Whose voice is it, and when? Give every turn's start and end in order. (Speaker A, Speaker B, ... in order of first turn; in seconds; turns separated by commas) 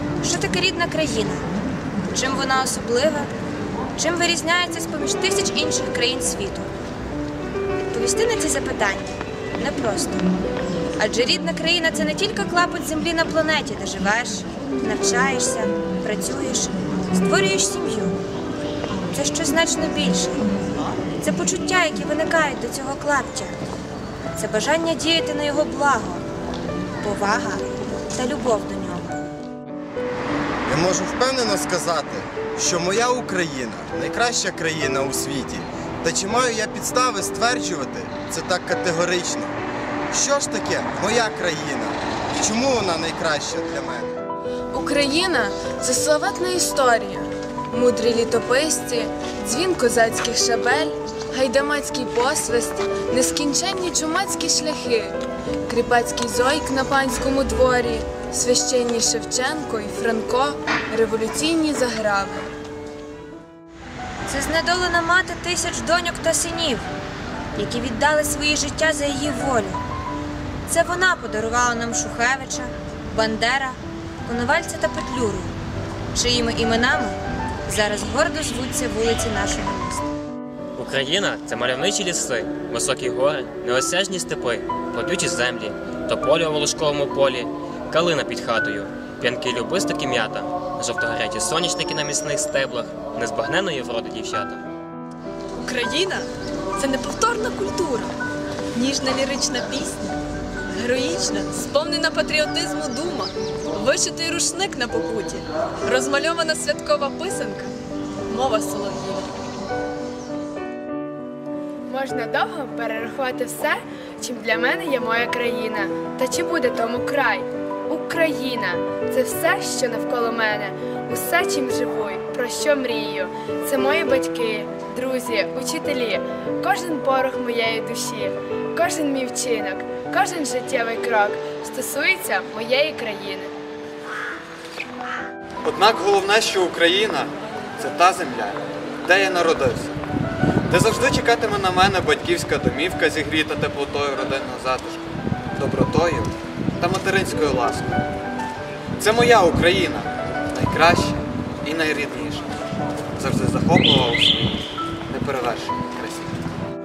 Speaker A: 0.2-1.4, Speaker A: 2.1-3.3, Speaker A: 4.0-6.7, Speaker A: 7.9-10.3, Speaker A: 11.0-18.2, Speaker A: 19.1-20.4, Speaker A: 21.2-23.5, Speaker A: 24.4-26.2, Speaker A: 27.0-29.2, Speaker B: 30.7-39.5, Speaker B: 40.1-44.1, Speaker C: 44.7-55.1, Speaker C: 55.7-62.5, Speaker A: 64.3-66.9, Speaker A: 67.5-69.8, Speaker A: 70.7-75.5, Speaker A: 76.1-80.1, Speaker D: 80.8-94.6, Speaker E: 95.6-98.1, Speaker E: 98.7-100.1, Speaker E: 100.7-107.7, Speaker E: 108.3-109.3, Speaker F: 111.9-133.5, Speaker G: 135.6-139.9, Speaker G: 140.7-148.0, Speaker G: 149.0-152.6, Speaker G: 153.2-154.6, Speaker G: 155.1-156.3